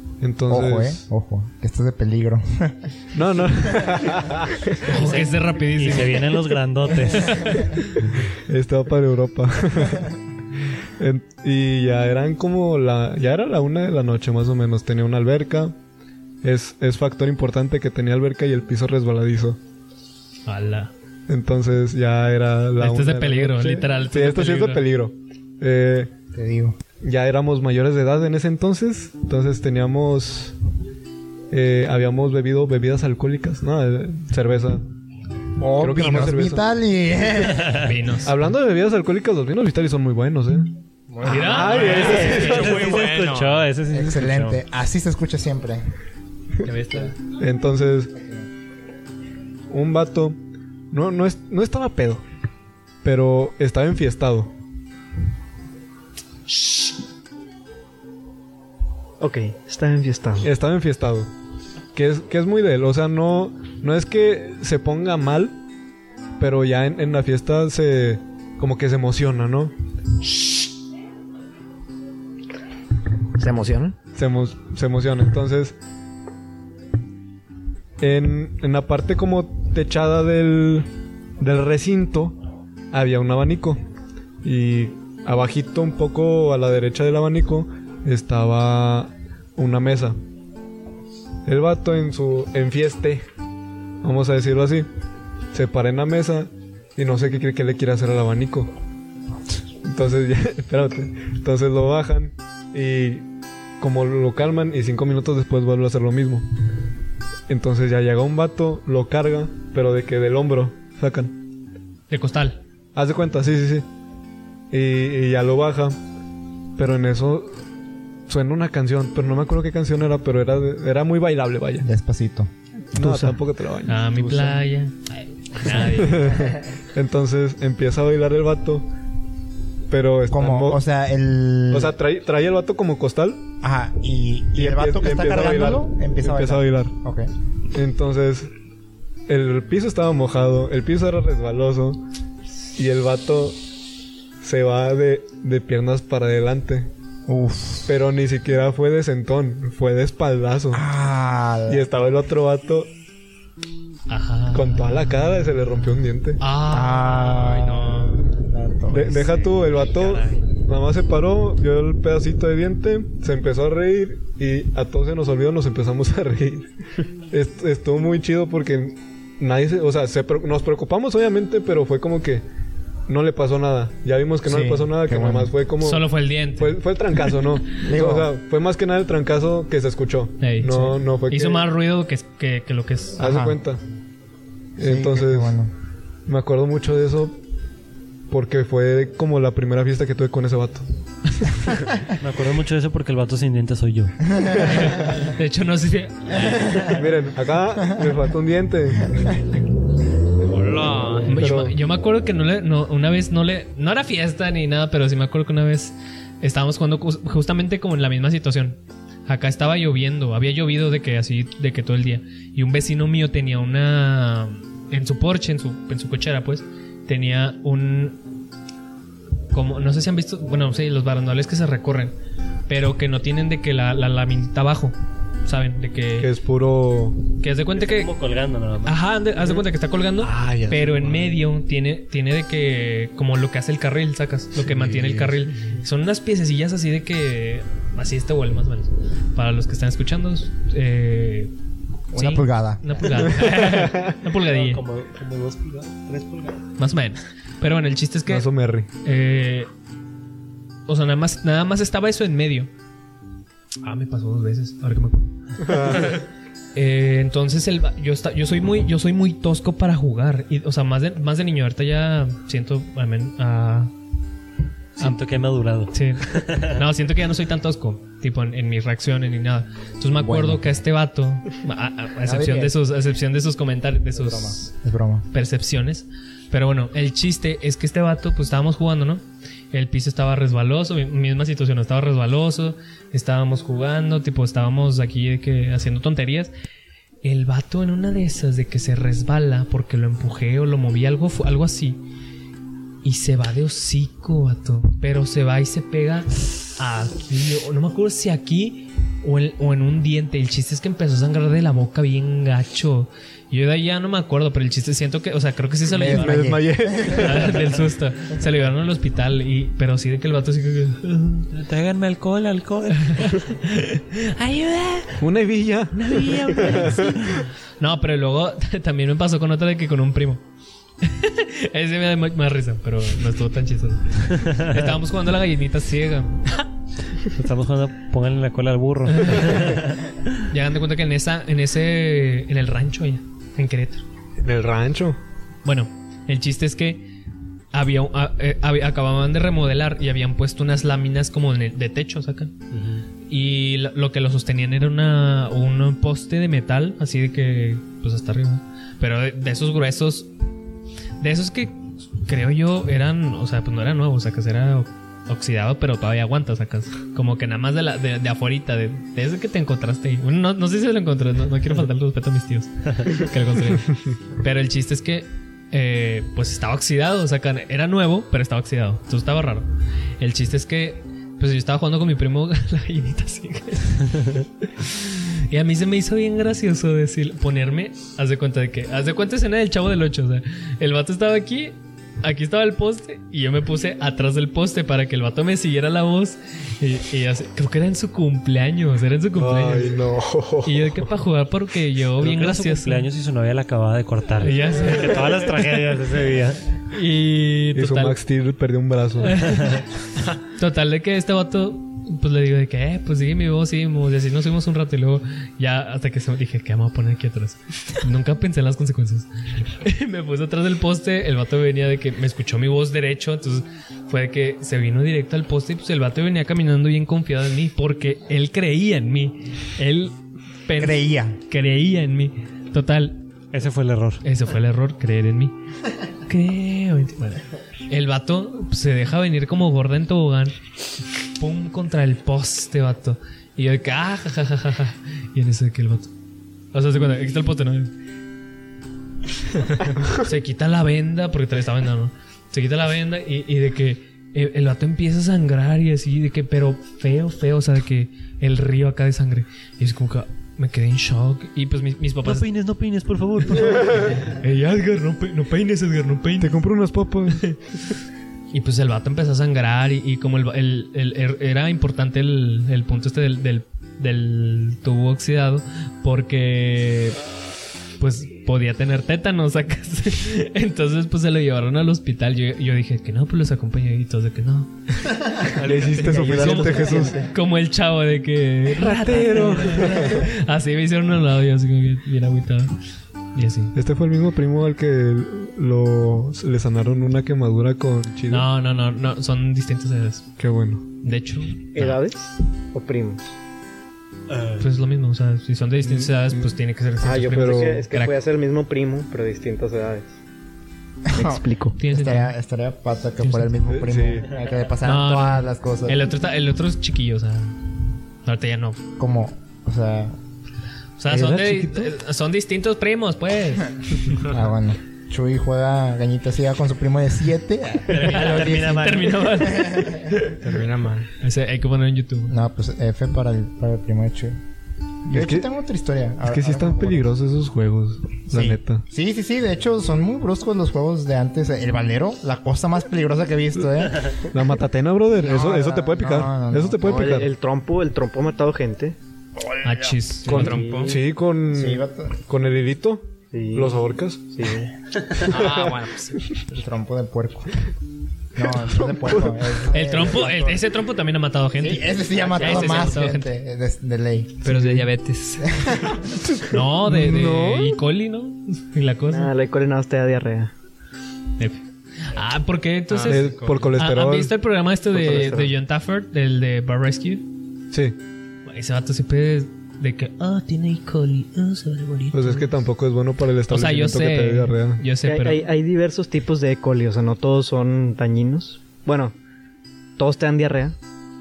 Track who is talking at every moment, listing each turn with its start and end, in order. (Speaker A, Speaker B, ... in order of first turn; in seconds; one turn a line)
Speaker A: 0.2-1.0
Speaker B: 0.5-2.8
Speaker A: 3.1-4.8
Speaker C: 4.8-6.4
Speaker D: 4.9-7.7
Speaker C: 7.2-7.7
Speaker A: 8.0-10.2
Speaker A: 11.0-15.8
Speaker A: 16.4-19.6
Speaker C: 20.5-20.9
Speaker A: 21.3-26.1
Speaker C: 22.8-24.9
Speaker B: 26.3-26.8
Speaker A: 27.0-30.6
Speaker A: 31.5-34.8
Speaker B: 35.6-37.9
Speaker A: 35.8-36.7
Speaker C: 37.8-38.4
Speaker A: 38.2-40.7
Speaker B: 41.1-41.7
Speaker C: 41.2-42.9
Speaker E: 41.3-43.7
Speaker A: 41.5-42.6
Speaker D: 41.9-44.6
Speaker B: 43.9-45.9
Speaker B: 46.6-47.1
Speaker A: 47.3-48.1
Speaker B: 48.2-48.5
Speaker A: 49.7-50.4
Speaker A: 50.9-52.2
Speaker A: 53.0-54.5
Speaker F: 59.2-60.5
Speaker A: 60.4-61.3
Speaker A: 61.9-65.5
Speaker A: 66.4-69.7
Speaker F: 73.4-74.0
Speaker A: 74.1-75.8
Speaker A: 78.0-80.9
Speaker A: 81.4-82.4
Speaker A: 82.9-83.8
Speaker A: 84.4-90.2
Speaker A: 91.5-93.3
Speaker A: 94.0-94.9
Speaker A: 95.5-98.8
Speaker A: 99.8-103.3
Speaker A: 103.8-106.5
Speaker A: 107.5-111.3
Speaker C: 112.1-112.6
Speaker A: 113.0-113.9
Speaker A: 114.7-116.0
Speaker A: 116.8-117.6
Speaker A: 118.3-121.9
Speaker B: 121.8-122.5
Speaker A: 122.9-124.5
Speaker F: 123.0-123.4
Speaker C: 123.9-126.4
Speaker A: 125.7-128.8
Speaker A: 129.9-130.8
Speaker B: 130.3-132.0
Speaker A: 131.7-133.4
Speaker B: 133.6-137.3
Speaker A: 134.5-136.9
Speaker A: 137.7-138.5
Speaker A: 139.3-142.0
Speaker A: 142.8-143.6
Speaker A: 144.4-146.9
Speaker B: 147.3-147.9
Speaker A: 147.9-150.8
Speaker B: 150.7-151.9
Speaker A: 151.7-152.9
Speaker C: 154.1-155.2
Speaker A: 154.5-156.4
Speaker C: 156.4-158.2
Speaker B: 156.7-159.3
Speaker A: 158.9-166.7
Speaker C: 159.1-159.4
Speaker A: 167.3-172.4
Speaker A: 173.1-181.7
Speaker B: 174.4-175.5
Speaker C: 175.8-176.8
Speaker B: 177.8-178.3
Speaker C: 180.4-183.5
Speaker A: 183.2-183.8
Speaker B: 183.2-183.5
Speaker A: 184.8-185.6
Speaker B: 184.8-185.7
Speaker A: 186.3-187.4
Speaker A: 188.3-190.8
Speaker D: 192.2-194.3
Speaker C: 194.5-196.9
Speaker A: 196.8-199.3
Speaker E: 200.4-201.4
Speaker A: 201.2-201.8
Speaker C: 201.2-218.2
Speaker C: 219.5-222.1
Speaker C: 222.7-226.3
Speaker A: 226.2-227.2
Speaker C: 227.4-228.1
Speaker D: 227.8-229.0
Speaker C: 228.8-241.5
Speaker A: 230.2-231.3
Speaker A: 234.6-235.4
Speaker B: 242.1-243.0
Speaker C: 242.1-244.8
Speaker A: 243.3-244.1
Speaker D: 244.5-246.6
Speaker C: 246.8-248.5
Speaker A: 248.3-248.9
Speaker C: 249.0-249.7
Speaker C: 250.9-252.7
Speaker C: 253.8-256.2
Speaker A: 255.6-256.2
Speaker C: 256.8-263.9
Speaker D: 265.0-266.8
Speaker C: 265.9-274.7
Speaker B: 270.2-270.8
Speaker B: 272.2-272.8
Speaker B: 274.1-275.3
Speaker C: 275.3-286.5
Speaker C: 287.2-292.0
Speaker C: 293.0-311.5
Speaker B: 305.9-307.4
Speaker A: 306.1-307.7
Speaker D: 311.5-313.4
Speaker C: 313.1-315.2
Speaker A: 315.2-317.4
Speaker C: 315.9-320.4
Speaker D: 316.5-317.2
Speaker C: 321.0-326.6
Speaker D: 327.3-330.0
Speaker C: 329.1-329.8
Speaker C: 330.5-334.0
Speaker A: 334.4-335.2
Speaker C: 335.6-337.1
Speaker C: 337.7-342.5
Speaker D: 342.7-343.0
Speaker C: 343.3-350.3
Speaker C: 351.2-390.0
Speaker A: 389.4-391.1
Speaker C: 390.6-393.1
Speaker D: 392.2-396.7
Speaker C: 394.4-395.8
Speaker C: 396.9-398.2
Speaker A: 397.7-399.4
Speaker C: 399.2-399.9
Speaker C: 400.5-423.2
Speaker B: 420.8-421.4
Speaker D: 423.5-424.2
Speaker C: 424.2-425.5
Speaker C: 426.3-430.5
Speaker C: 431.4-436.1
Speaker C: 436.7-437.9
Speaker C: 440.1-452.5
Speaker D: 452.2-454.2
Speaker C: 453.5-456.6
Speaker A: 456.4-457.5
Speaker C: 457.3-457.6
Speaker C: 458.5-467.2
Speaker C: 468.0-474.7
Speaker A: 475.6-477.1
Speaker F: 475.6-477.3
Speaker E: 475.6-476.3
Speaker C: 476.3-482.8
Speaker A: 478.8-480.3
Speaker C: 483.3-483.7
Speaker A: 483.8-488.5
Speaker C: 488.3-490.3
Speaker A: 490.4-490.9
Speaker C: 491.0-492.0
Speaker F: 491.7-493.2
Speaker D: 494.3-494.6
Speaker C: 494.6-498.2
Speaker A: 495.8-496.5
Speaker F: 497.0-500.1
Speaker A: 497.3-497.8
Speaker B: 501.1-506.0
Speaker F: 501.1-501.8
Speaker C: 501.8-502.4
Speaker C: 503.2-503.5
Speaker A: 503.6-504.3
Speaker C: 504.8-507.6
Speaker C: 508.2-508.9
Speaker B: 509.0-510.1
Speaker C: 511.0-513.7
Speaker A: 511.1-511.9
Speaker B: 514.2-520.0
Speaker D: 517.9-519.3
Speaker C: 517.9-520.5
Speaker E: 520.4-521.0
Speaker C: 521.1-522.4
Speaker B: 522.3-524.4
Speaker A: 525.1-525.5
Speaker B: 525.1-527.1
Speaker A: 526.3-528.8
Speaker B: 528.3-534.3
Speaker A: 534.3-537.3
Speaker B: 535.2-537.2
Speaker F: 536.8-539.0
Speaker C: 539.6-540.6
Speaker A: 540.3-544.3
Speaker E: 540.3-541.0
Speaker F: 540.4-541.0
Speaker B: 541.5-542.2
Speaker F: 543.3-545.2
Speaker E: 545.3-546.2
Speaker A: 545.3-545.7
Speaker B: 546.5-547.6
Speaker B: 548.4-550.6
Speaker A: 548.6-549.4
Speaker C: 549.7-553.3
Speaker B: 551.6-554.5
Speaker E: 554.4-555.6
Speaker A: 554.5-554.8
Speaker B: 555.5-556.0
Speaker A: 556.1-557.8
Speaker C: 556.5-559.3
Speaker F: 559.1-560.5
Speaker C: 561.4-567.3
Speaker E: 562.9-563.8
Speaker A: 563.1-564.3
Speaker F: 564.9-565.5
Speaker A: 567.7-568.0
Speaker C: 568.5-572.5
Speaker A: 572.1-574.9
Speaker C: 573.5-575.4
Speaker F: 575.0-579.1
Speaker F: 580.0-580.8